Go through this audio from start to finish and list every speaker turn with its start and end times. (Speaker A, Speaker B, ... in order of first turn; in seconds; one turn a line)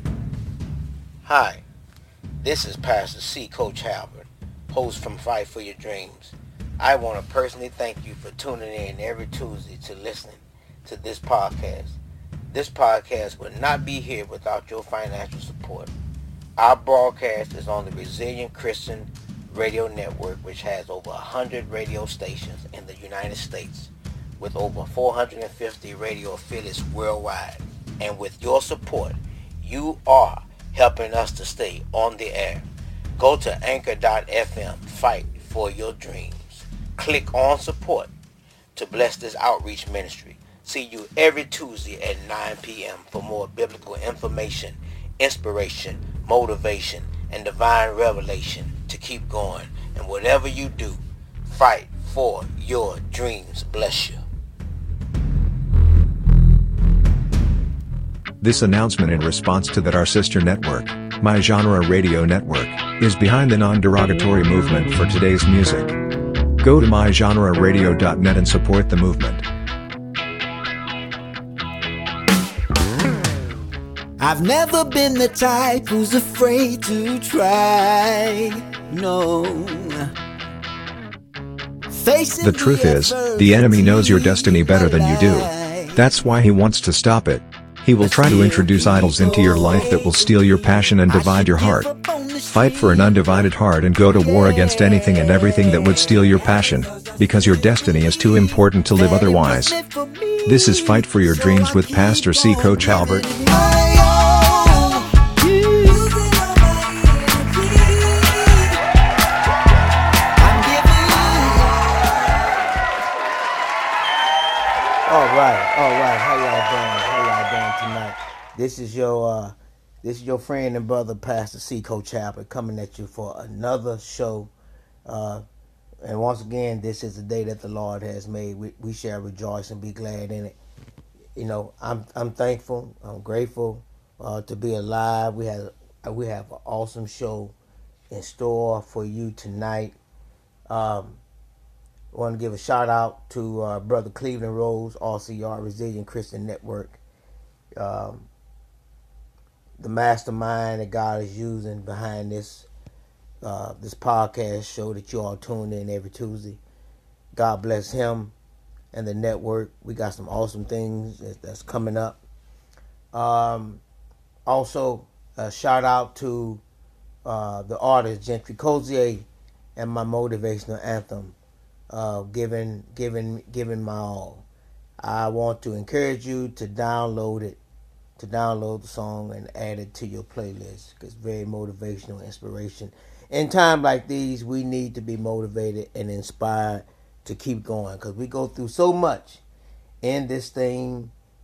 Speaker A: 1.2-1.6
Speaker A: 2.4-12.0
Speaker A: 12.5-15.9
Speaker A: 16.6-32.7
Speaker A: 33.2-38.1
Speaker A: 38.7-54.2
Speaker B: 58.4-66.0
Speaker B: 66.6-69.4
Speaker C: 74.2-80.1
Speaker C: 81.9-86.0
Speaker B: 82.4-91.9
Speaker C: 88.0-108.8
Speaker B: 92.5-99.7
Speaker B: 100.5-103.3
Speaker C: 110.4-112.2
Speaker A: 115.1-124.5
Speaker A: 125.0-125.4
Speaker A: 126.0-130.6
Speaker A: 131.3-137.5
Speaker A: 138.1-139.9
Speaker A: 140.7-141.2
Speaker A: 142.1-147.0
Speaker A: 147.8-148.3
Speaker A: 149.8-152.7
Speaker A: 153.4-156.6
Speaker A: 157.3-158.3
Speaker A: 158.9-162.2
Speaker A: 163.1-163.8
Speaker A: 164.4-166.6
Speaker A: 167.2-171.3
Speaker A: 171.9-174.4
Speaker A: 175.0-177.6
Speaker A: 178.2-189.4
Speaker A: 190.0-191.1